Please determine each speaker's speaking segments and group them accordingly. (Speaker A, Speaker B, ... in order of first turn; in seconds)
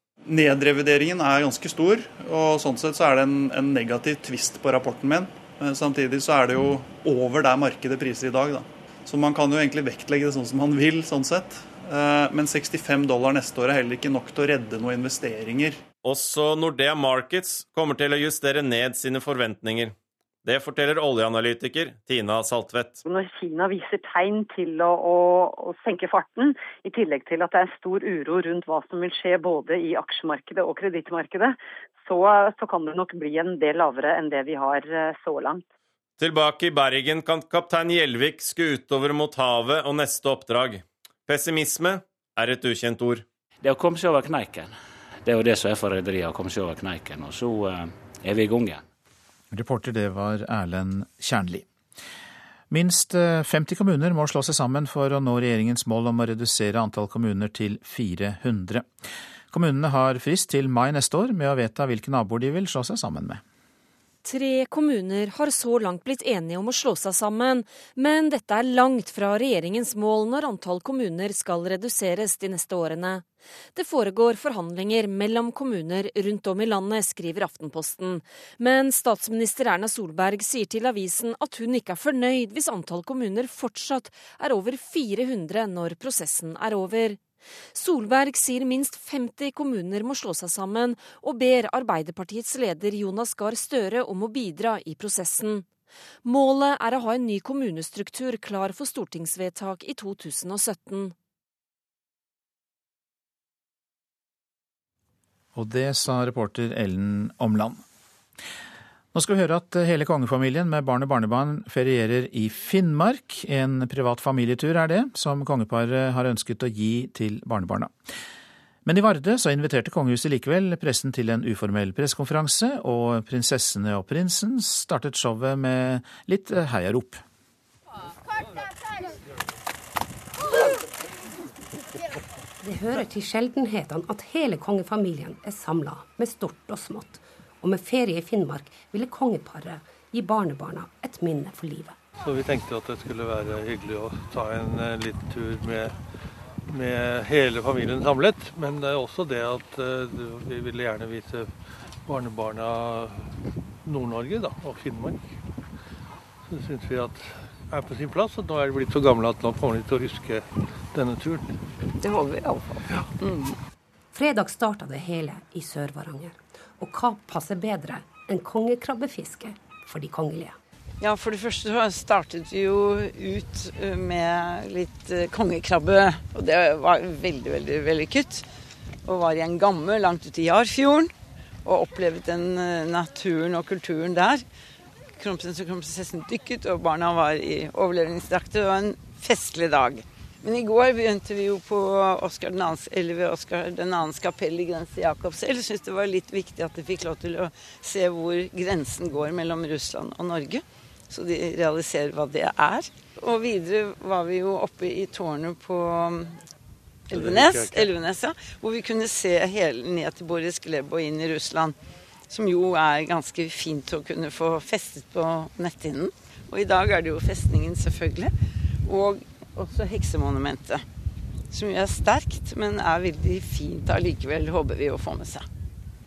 Speaker A: 0.2-15.8
Speaker B: 16.0-23.0, 36.2-43.2
Speaker C: 23.0-35.6
Speaker D: 43.6-48.8
Speaker E: 49.5-51.6, 52.7-58.9, 59.5-63.4, 105.5-107.8, 109.1-117.9, 118.8-127.2
Speaker F: 64.2-87.2, 87.7-95.7, 96.2-101.1
Speaker G: 132.6-141.9, 164.1-170.6
Speaker H: 142.2-145.9, 146.7-151.5, 152.1-153.1, 153.9-155.2, 156.5-160.4, 160.9-161.4
Speaker I: 162.0-163.6, 171.0-178.4, 179.0-181.1, 181.6-184.4, 185.2-206.3, 207.1-211.8, 212.3-218.3, 218.8-220.8, 221.5-225.4